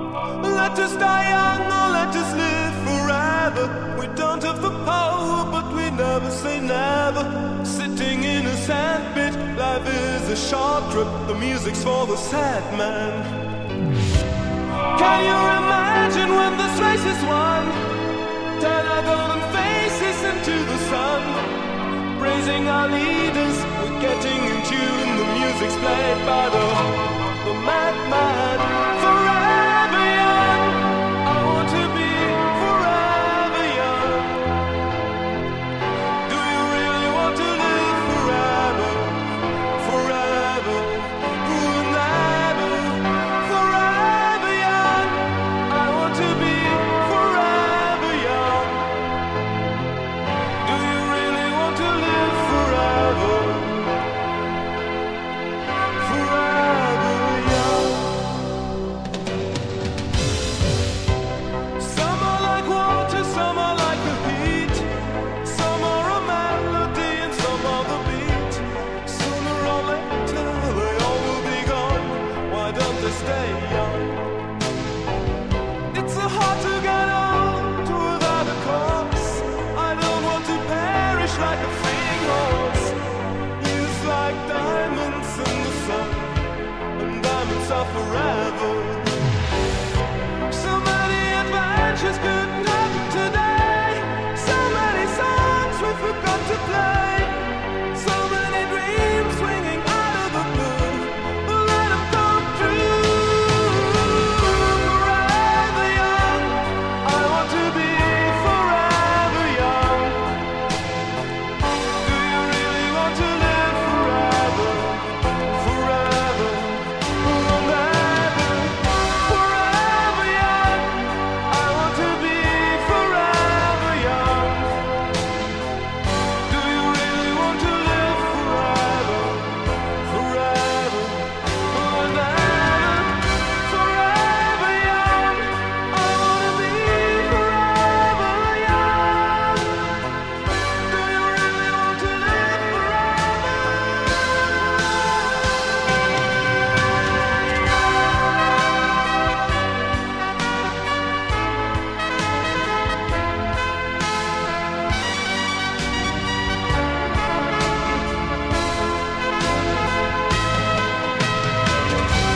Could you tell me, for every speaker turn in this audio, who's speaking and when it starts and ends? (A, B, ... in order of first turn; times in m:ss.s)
0:00.4-0:13.4 A
0:14.9-0:17.9 A
0:18.6-0:34.4 A
0:36.2-0:49.0 A
0:50.6-0:54.0 A
0:56.0-0:58.2 A
1:01.8-1:14.3 A
1:15.9-1:23.0 A
1:23.6-1:26.4 A
1:27.0-1:29.3 A
1:30.5-1:50.3 A
1:52.0-2:04.8 A
2:06.4-2:19.9 A
2:20.9-2:24.2 A